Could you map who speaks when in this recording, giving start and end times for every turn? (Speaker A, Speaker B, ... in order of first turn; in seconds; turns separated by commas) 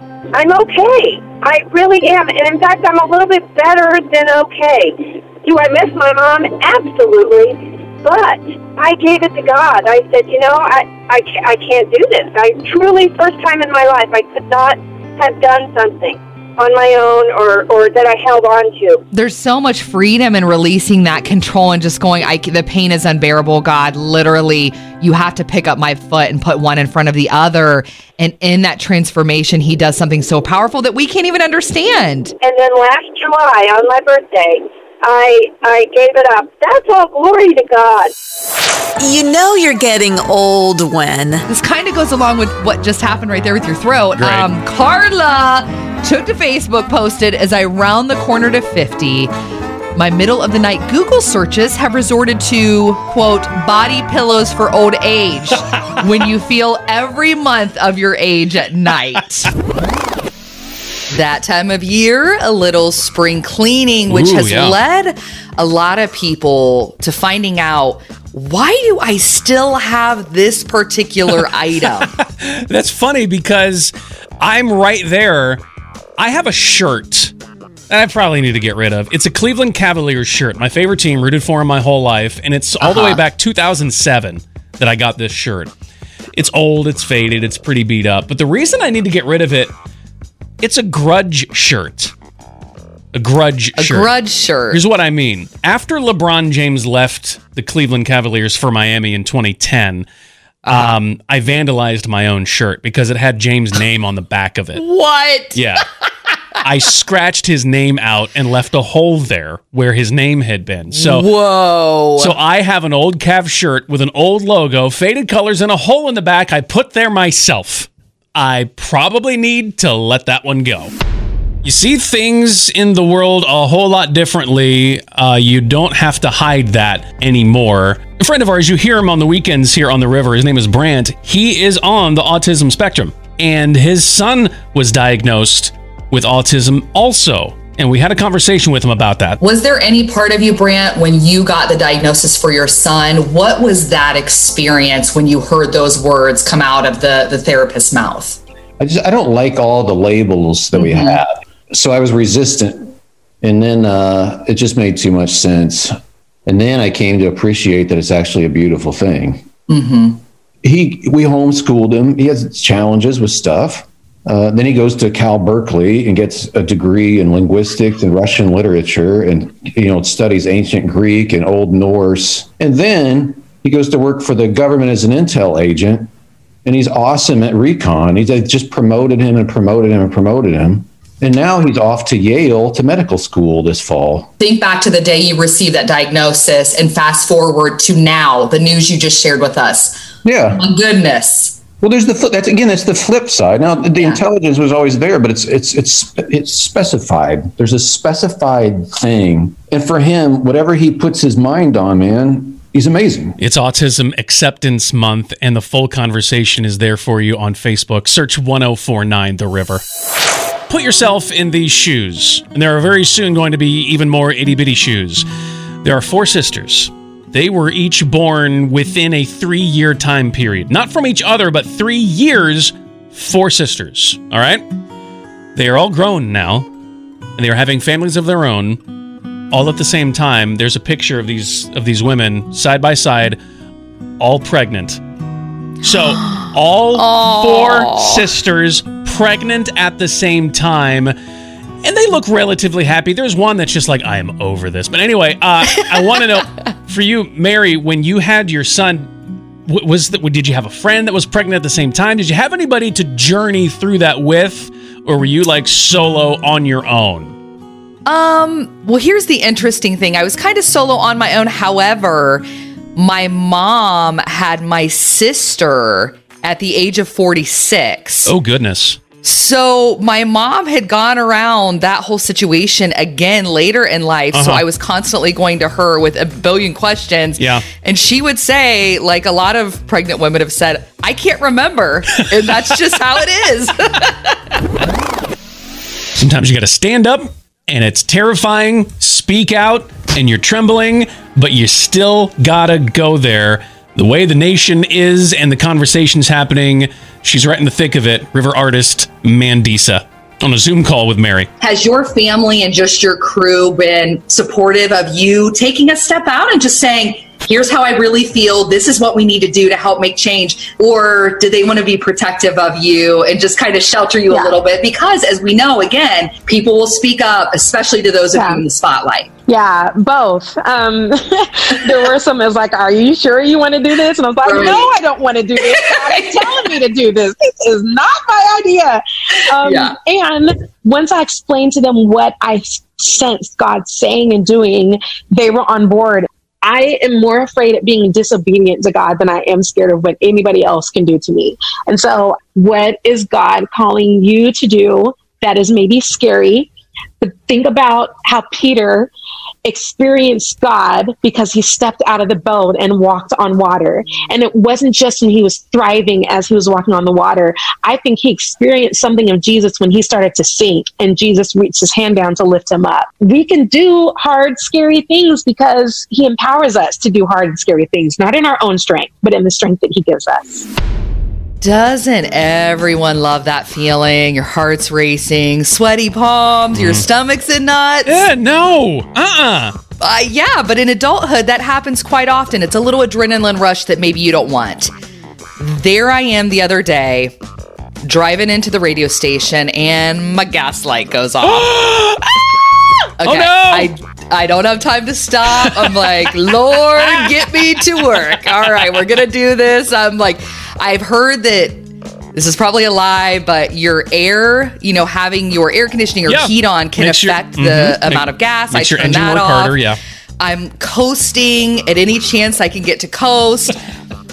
Speaker A: 0.3-19.0, Speaker B: 19.1-32.3, Speaker A: 32.4-38.1, Speaker C: 39.0-41.5, Speaker B: 41.5-49.3, Speaker D: 44.2-44.5, Speaker B: 50.0-59.5, Speaker B: 61.1-72.1, Speaker D: 64.1-64.8, Speaker D: 72.0-75.6, Speaker D: 76.2-77.3, Speaker D: 77.9-85.7, Speaker B: 82.8-83.2, Speaker D: 86.3-89.7, Speaker D: 90.6-92.1, Speaker D: 93.1-94.1, Speaker B: 93.8-94.8, Speaker D: 94.7-100.1, Speaker B: 100.7-101.0, Speaker D: 100.7-104.8, Speaker B: 104.8-105.6, Speaker D: 105.5-105.9, Speaker D: 106.6-111.3, Speaker B: 110.9-112.3, Speaker D: 112.2-120.9, Speaker D: 121.6-139.4, Speaker E: 139.4-148.4, Speaker F: 148.8-155.9, Speaker E: 150.8-151.2, Speaker F: 156.5-159.5, Speaker E: 159.7-160.2, Speaker F: 160.6-176.1, Speaker F: 176.7-184.3, Speaker E: 184.4-190.0, Speaker F: 190.2-190.6, Speaker E: 190.6-191.6, Speaker F: 191.8-203.4, Speaker D: 203.4-209.8, Speaker D: 210.7-215.2, Speaker D: 215.8-224.6, Speaker D: 225.6-226.7, Speaker D: 227.4-228.8, Speaker D: 229.5-233.4, Speaker D: 234.2-235.0, Speaker D: 235.8-241.2, Speaker B: 236.3-238.2, Speaker D: 241.8-249.1, Speaker D: 249.7-257.4, Speaker B: 258.1-262.4, Speaker B: 263.0-268.3, Speaker D: 268.3-269.0, Speaker B: 269.2-284.4, Speaker D: 274.3-274.6, Speaker D: 277.4-277.6, Speaker D: 286.2-301.5, Speaker E: 301.6-319.3, Speaker G: 314.3-314.6, Speaker G: 318.3-318.6, Speaker G: 319.5-346.7, Speaker E: 324.5-324.9, Speaker G: 347.2-349.1, Speaker G: 349.6-370.7, Speaker B: 371.6-378.2, Speaker D: 376.7-377.1, Speaker D: 378.1-379.7, Speaker B: 380.0-384.9, Speaker B: 385.6-387.3, Speaker B: 388.0-391.7, Speaker D: 391.4-392.4, Speaker B: 393.2-409.8, Speaker D: 393.2-393.9, Speaker D: 397.1-397.4, Speaker D: 406.3-410.0, Speaker B: 410.4-413.8